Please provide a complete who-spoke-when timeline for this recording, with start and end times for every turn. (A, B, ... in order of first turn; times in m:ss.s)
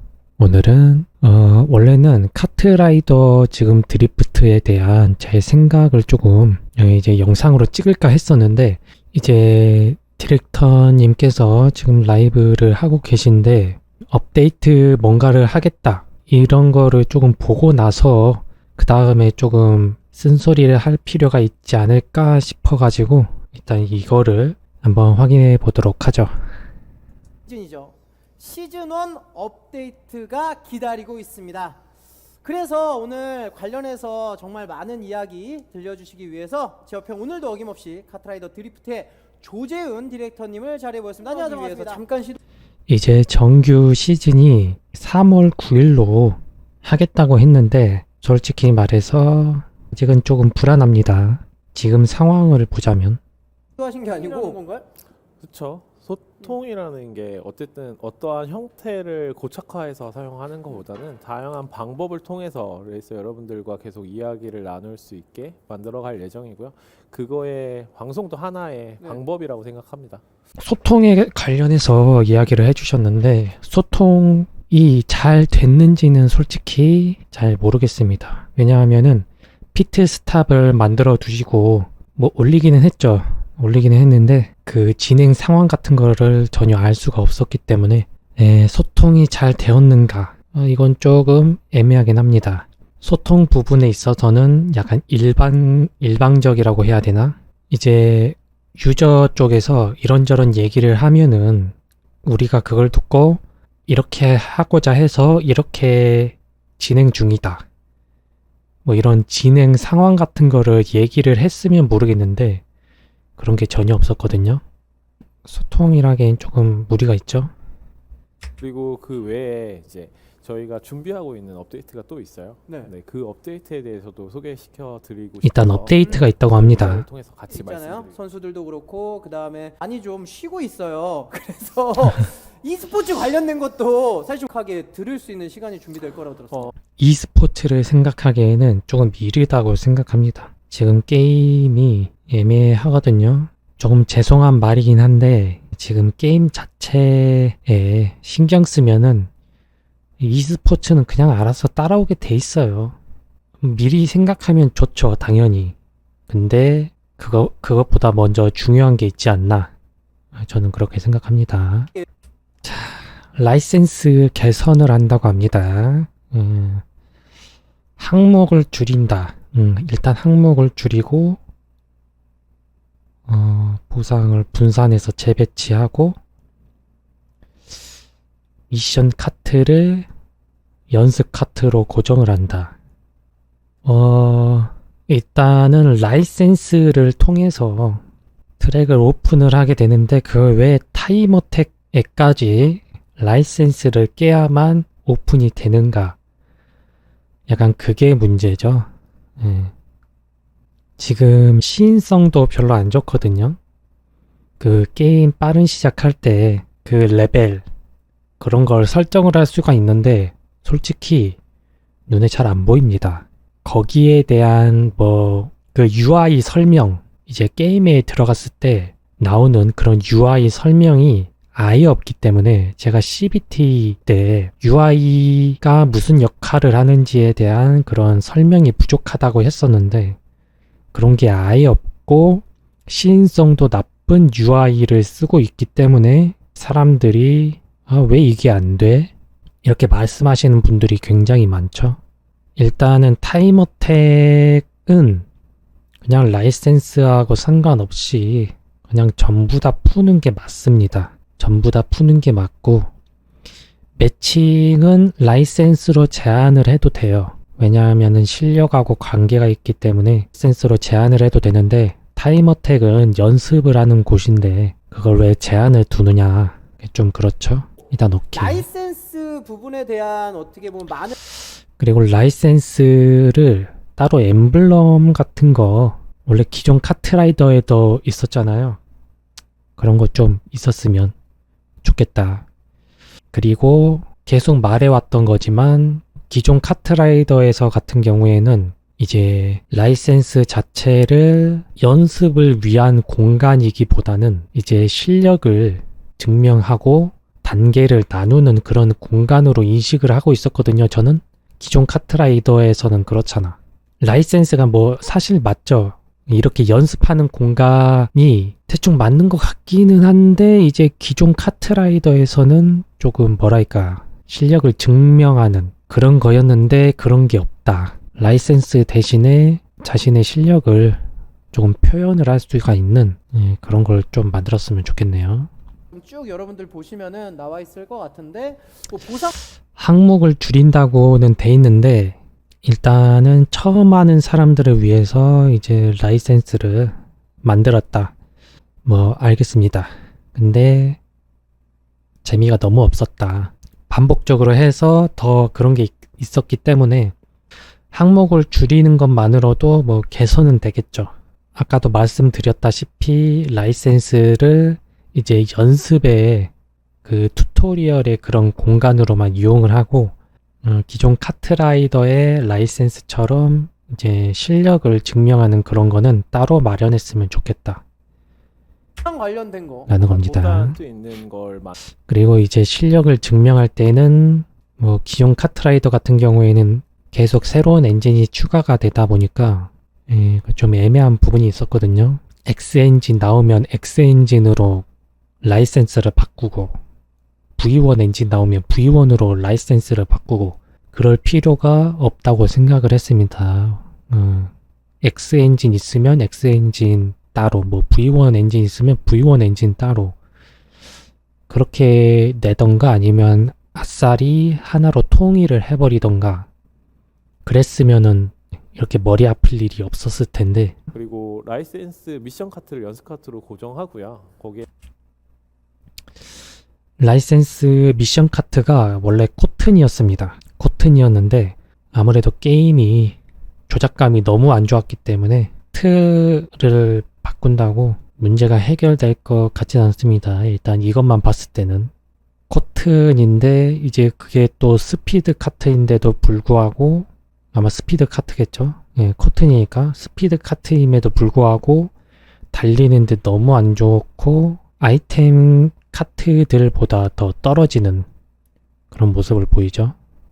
0:00.4-0:26.4 A
0:27.5-0:31.8 B
0:32.4-0:42.4 B
0:41.3-0:42.0 C
0:42.9-0:53.2 A
0:53.8-0:54.9 B
0:54.0-0:54.6 C
0:55.4-1:10.2 C
1:10.6-1:47.6 A
1:48.8-1:52.6 A
1:53.4-1:54.6 A
1:55.4-1:57.5 A
1:58.6-2:08.2 C
2:02.7-2:02.9 B
2:05.4-2:07.0 A
2:07.5-2:16.7 B
2:17.0-2:29.3 A
2:30.2-2:33.0 A
2:33.6-2:35.7 A
2:36.3-2:39.7 A
2:40.3-2:41.9 A
2:42.6-2:46.8 A
2:48.0-2:51.4 A
2:53.3-2:56.2 A
2:58.7-3:00.1 A
3:00.9-3:02.7 A
3:03.8-3:08.0 A
3:08.6-3:16.2 A
3:17.5-3:19.7 A
3:21.0-3:23.6 A
3:24.6-3:27.6 A
3:28.4-3:31.4 A
3:32.1-3:50.2 A
3:50.9-3:59.1 A
3:59.6-4:02.0 A
4:02.6-4:05.2 A
4:06.0-4:12.9 A
4:14.0-4:28.6 A
4:28.3-4:31.2 B
4:31.8-4:38.8 A
4:39.8-4:41.1 A
4:41.8-4:42.4 A
4:43.3-5:25.5 A
5:25.9-5:29.3 B
5:29.8-5:38.1 A
5:38.8-5:41.0 A
5:42.2-5:47.1 A
5:47.9-5:56.5 A
5:57.0-6:07.8 A
6:09.0-6:09.9 B
6:09.9-6:10.8 A
6:10.0-6:11.8 C
6:12.1-6:24.8 A
6:25.4-6:26.7 A
6:27.6-6:34.5 A
6:35.0-6:40.2 A
6:41.5-6:46.5 A
6:47.4-6:50.8 A
6:50.9-6:54.6 C
6:57.0-7:03.2 A
7:03.7-7:11.9 A
7:12.5-7:21.9 A
7:22.5-7:28.1 A
7:28.9-7:30.0 A